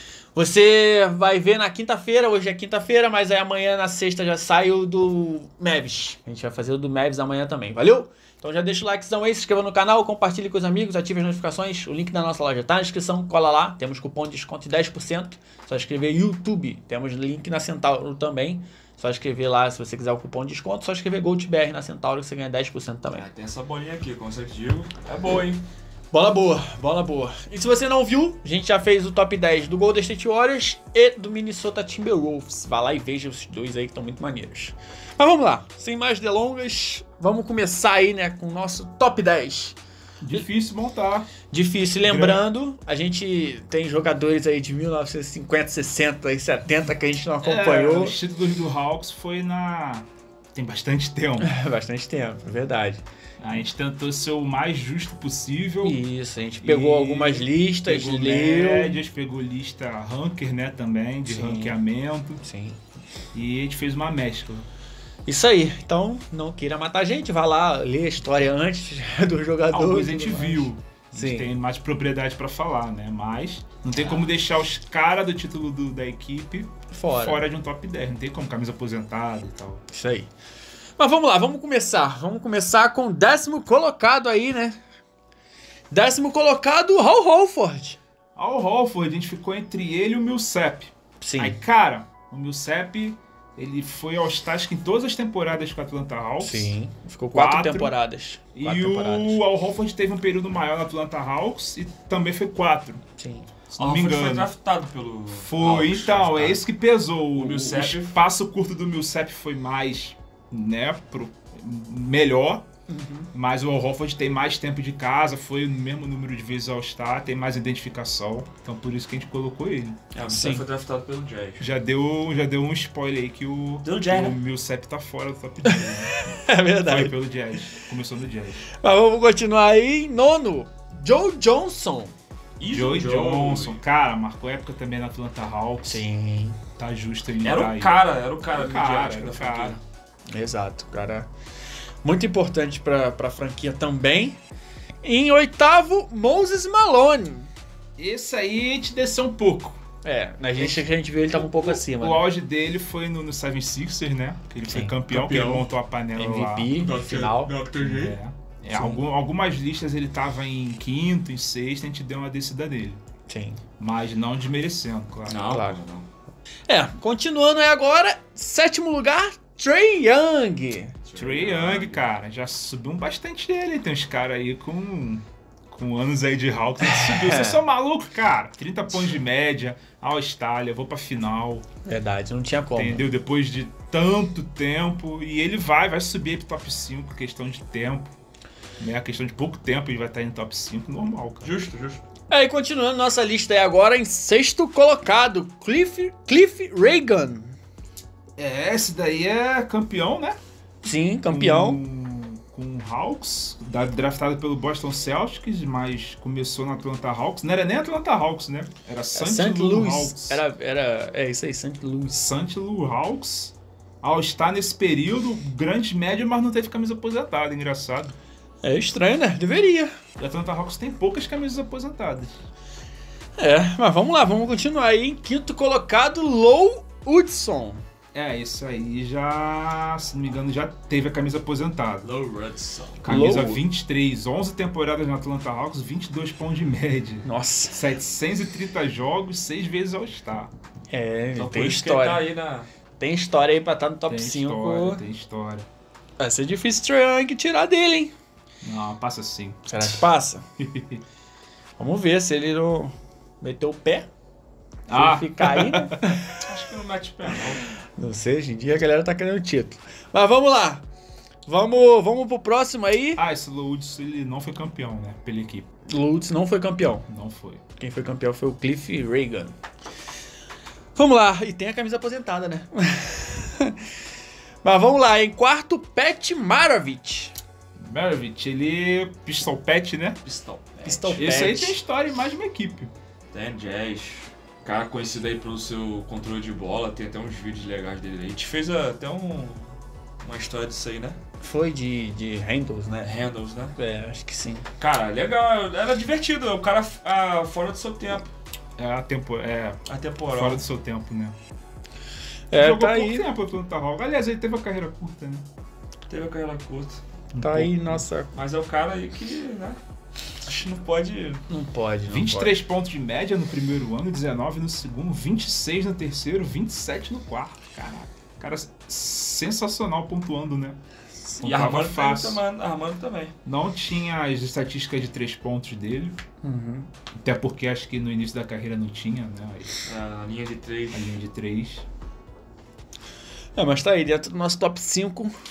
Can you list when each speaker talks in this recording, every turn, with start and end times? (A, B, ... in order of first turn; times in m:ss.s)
0:00.3-0:23.3 A
0:23.1-0:25.6 B
0:26.1-0:39.8 A
0:40.2-0:41.3 C
0:41.5-0:48.2 A
0:42.0-0:42.4 C
0:47.4-0:51.5 C
0:51.4-0:53.0 A
0:53.4-0:56.0 C
0:55.8-0:59.0 A
0:56.6-1:02.4 C
1:01.2-1:01.8 A
1:02.4-1:02.8 A
1:03.3-1:04.6 C
1:05.2-1:11.5 A
1:09.7-1:19.8 C
1:14.0-1:14.3 B
1:16.9-1:17.4 A
1:19.9-1:20.3 A
1:21.0-1:24.8 A
1:25.9-1:28.0 A
1:28.4-1:36.7 C
1:31.2-1:31.6 A
1:36.4-1:39.4 A
1:37.3-1:37.9 C
1:38.5-1:43.0 C
1:43.2-1:43.5 A
1:43.7-1:44.5 C
1:43.8-1:46.6 B
1:45.3-1:52.6 C
1:47.3-1:48.2 B
1:52.9-1:53.3 A
1:53.3-2:00.0 C
2:00.1-2:01.6 B
2:00.2-2:00.6 A
2:01.6-2:06.1 C
2:03.8-2:04.4 B
2:05.6-2:07.2 A
2:06.8-2:08.6 C
2:08.7-2:12.1 A
2:12.6-2:13.8 B
2:12.7-2:16.0 C
2:15.8-2:16.6 A
2:16.8-2:19.8 C
2:17.4-2:19.8 B
2:20.3-2:21.3 A
2:22.0-2:24.4 A
2:25.0-2:27.5 A
2:28.0-2:29.8 C
2:30.0-2:32.2 A
2:30.6-2:36.7 C
2:34.6-2:37.5 A
2:36.8-2:38.2 B
2:37.8-2:43.0 C
2:38.7-2:39.0 A
2:43.3-2:43.6 A
2:43.8-2:45.4 C
2:45.2-2:46.1 B
2:45.4-2:45.8 A
2:46.7-2:50.9 A
2:51.0-2:52.1 B
2:51.2-3:01.6 C
2:56.8-2:57.6 A
3:01.8-3:03.1 A
3:02.8-3:08.1 C
3:08.8-3:11.5 C
3:11.4-3:12.0 B
3:12.3-3:17.6 A
3:18.4-3:20.4 C
3:20.8-3:21.8 A
3:21.2-3:30.4 C
3:29.1-3:32.3 A
3:32.1-3:38.1 C
3:38.6-3:39.9 A
3:40.2-3:42.4 C
3:43.4-3:47.8 A
3:48.1-3:52.1 C
3:52.0-3:53.1 B
3:53.0-4:00.5 C
3:53.1-3:53.6 A
3:57.2-3:57.8 A
4:00.9-4:02.2 A
4:01.4-4:02.7 B
4:03.0-4:05.0 A
4:04.1-4:05.6 C
4:06.2-4:08.1 A
4:08.6-4:10.0 C
4:09.7-4:10.4 A
4:10.6-4:11.0 C
4:11.8-4:14.1 A
4:14.9-4:16.0 C
4:14.9-4:16.4 A
4:16.4-4:17.6 B
4:17.8-4:20.8 A
4:21.4-4:23.2 A
4:23.2-4:25.7 C
4:25.9-4:27.0 A
4:27.1-4:27.6 C
4:27.8-4:29.5 A
4:30.9-4:33.8 A
4:34.6-4:37.3 A
4:37.8-4:40.2 C
4:40.2-4:41.3 B
4:40.8-4:41.8 A
4:41.1-4:42.9 C
4:43.3-4:51.2 B
4:51.4-4:53.2 A
4:53.0-4:53.7 B
4:53.8-4:54.6 A
4:54.8-4:58.3 B
4:58.8-4:59.8 C
4:59.9-5:00.6 B
5:00.3-5:01.3 C
5:02.5-5:03.3 A
5:02.5-5:05.4 C
5:06.1-5:07.0 B
5:07.3-5:08.0 C
5:07.4-5:08.3 A
5:08.3-5:09.8 B
5:10.4-5:11.4 B
5:11.5-5:12.6 A
5:12.1-5:20.8 C
5:21.4-5:22.4 C
5:21.4-5:23.3 B
5:23.4-5:26.2 C
5:26.4-5:26.9 A
5:27.2-5:29.7 C
5:29.8-5:31.2 B
5:30.9-5:31.8 C
5:33.6-5:35.3 A